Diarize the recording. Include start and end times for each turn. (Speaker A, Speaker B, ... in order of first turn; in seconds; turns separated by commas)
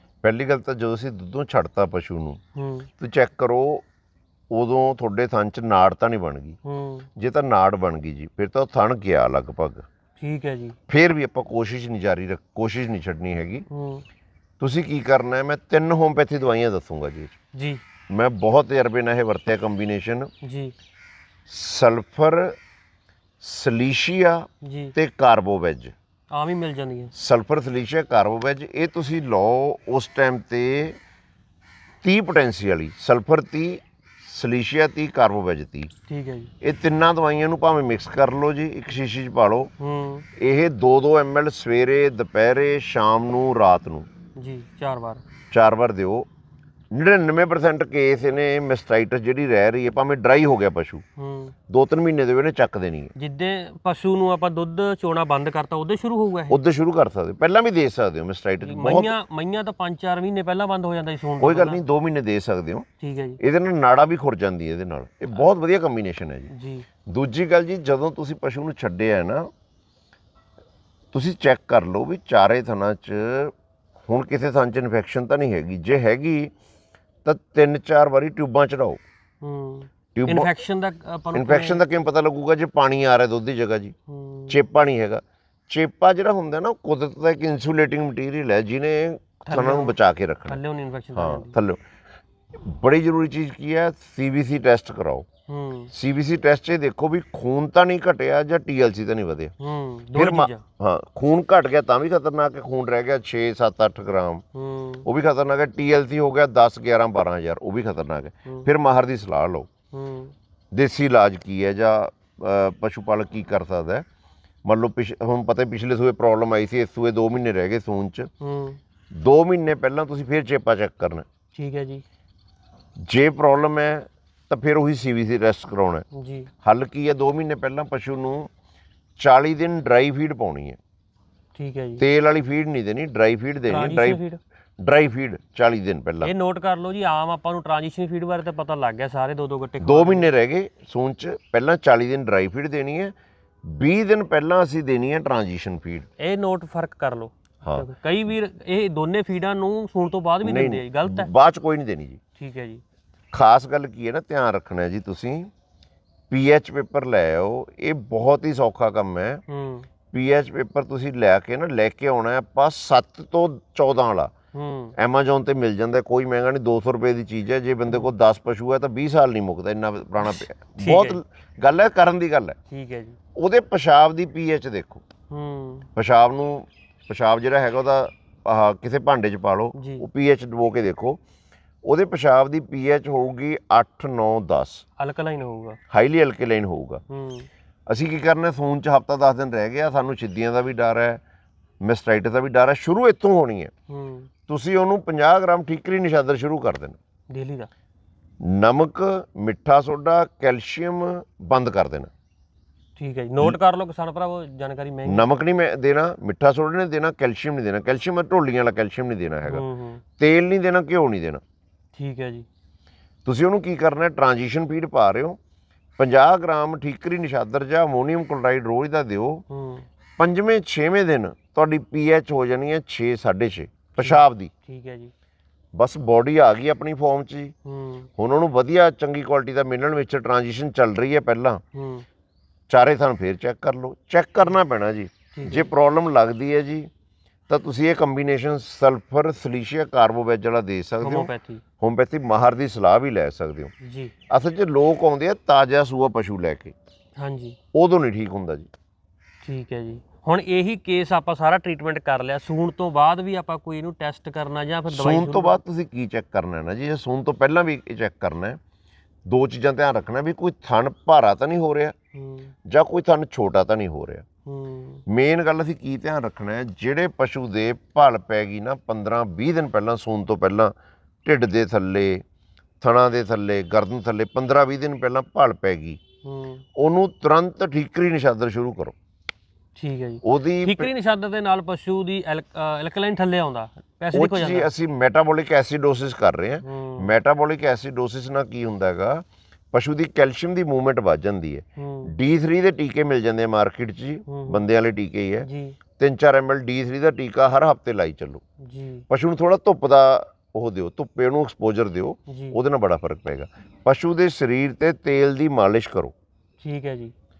Speaker A: 0.2-2.4, Speaker B: 2.5-2.9, Speaker A: 3.0-3.8, Speaker A: 4.5-6.6, Speaker B: 6.6-7.1, Speaker A: 7.2-9.8, Speaker B: 10.2-10.8, Speaker A: 10.9-13.7, Speaker B: 13.7-14.0, Speaker A: 14.6-17.4, Speaker B: 17.5-17.8, Speaker A: 18.1-20.3, Speaker B: 20.4-20.7, Speaker A: 21.5-22.6, Speaker A: 23.4-25.9, Speaker B: 24.6-24.9, Speaker B: 26.3-27.1, Speaker A: 27.1-31.0, Speaker A: 32.0-35.9, Speaker B: 36.1-36.5, Speaker A: 36.6-39.7, Speaker B: 39.8-40.2, Speaker A: 40.4-44.1, Speaker B: 44.4-45.2, Speaker A: 45.5-46.3, Speaker A: 46.9-51.0, Speaker B: 51.2-51.5, Speaker A: 51.7-53.1, Speaker B: 53.1-56.6, Speaker A: 56.5-59.1, Speaker B: 58.6-61.8, Speaker A: 61.4-62.9, Speaker B: 63.0-63.4, Speaker A: 63.4-66.5, Speaker B: 66.5-66.8, Speaker A: 67.1-69.5, Speaker A: 71.1-73.5, Speaker A: 74.1-76.5, Speaker A: 77.2-79.0, Speaker B: 79.4-81.8, Speaker A: 80.1-80.5, Speaker A: 81.3-83.9, Speaker B: 84.1-84.6, Speaker A: 84.5-90.6, Speaker B: 89.4-90.0, Speaker B: 90.5-91.6, Speaker A: 91.2-91.8, Speaker A: 92.5-95.3, Speaker B: 95.5-95.9, Speaker A: 95.9-99.5, Speaker B: 99.6-100.6, Speaker A: 100.2-104.4, Speaker B: 104.5-105.1, Speaker A: 105.0-109.7, Speaker B: 109.9-110.3, Speaker A: 110.7-114.0, Speaker A: 114.6-118.3, Speaker B: 118.4-118.8, Speaker A: 119.1-121.2, Speaker B: 121.5-122.0, Speaker A: 123.0-126.0, Speaker B: 126.1-126.5, Speaker A: 126.6-128.5, Speaker A: 129.2-130.8, Speaker B: 131.5-132.0, Speaker A: 132.0-134.2, Speaker B: 133.7-134.4, Speaker A: 134.8-136.3, Speaker B: 136.2-140.3, Speaker A: 139.8-143.1, Speaker A: 143.7-146.1, Speaker B: 146.2-151.3, Speaker A: 150.4-152.2, Speaker B: 152.4-152.8, Speaker A: 153.3-155.5, Speaker A: 156.3-159.4, Speaker B: 159.5-159.9, Speaker A: 160.1-164.3, Speaker B: 164.5-164.9, Speaker A: 165.0-172.6, Speaker B: 167.9-168.1, Speaker B: 170.2-171.2, Speaker B: 172.7-173.2, Speaker A: 173.3-175.0, Speaker B: 175.3-175.9, Speaker A: 175.9-181.2, Speaker B: 179.7-180.0, Speaker A: 181.8-184.8, Speaker B: 185.0-185.8, Speaker A: 185.9-187.0, Speaker B: 187.1-187.5, Speaker A: 187.9-191.2, Speaker A: 191.8-193.7, Speaker B: 193.9-194.3, Speaker A: 194.5-197.0, Speaker B: 197.3-197.7, Speaker A: 198.4-202.1, Speaker B: 203.0-205.2, Speaker A: 205.0-209.6, Speaker B: 209.5-210.0, Speaker A: 210.2-211.4, Speaker B: 211.9-212.5, Speaker A: 213.2-215.4, Speaker A: 216.0-219.4, Speaker B: 219.5-219.8, Speaker A: 220.2-224.5, Speaker B: 224.0-225.1, Speaker A: 225.7-227.5, Speaker B: 227.6-228.1, Speaker A: 228.2-231.6, Speaker B: 231.7-232.1, Speaker A: 232.7-236.9, Speaker B: 235.3-235.7, Speaker A: 237.5-243.7, Speaker B: 241.0-241.6, Speaker B: 243.8-244.1, Speaker A: 244.3-246.7, Speaker B: 247.2-247.6, Speaker A: 247.7-248.7, Speaker B: 249.4-255.6, Speaker A: 254.9-258.6, Speaker A: 259.2-261.9, Speaker B: 262.1-262.5, Speaker A: 262.6-264.2, Speaker B: 264.4-265.0, Speaker A: 265.1-270.7, Speaker A: 271.2-272.2, Speaker A: 272.8-276.0, Speaker B: 276.2-276.6, Speaker A: 276.8-278.9, Speaker B: 279.8-284.7, Speaker A: 280.2-280.9, Speaker A: 284.1-295.5, Speaker B: 286.6-287.1, Speaker B: 291.8-292.1, Speaker B: 294.3-294.6, Speaker B: 295.4-295.8, Speaker A: 296.0-298.4, Speaker B: 298.6-299.0, Speaker A: 299.1-306.1, Speaker B: 302.3-302.6, Speaker B: 306.6-307.1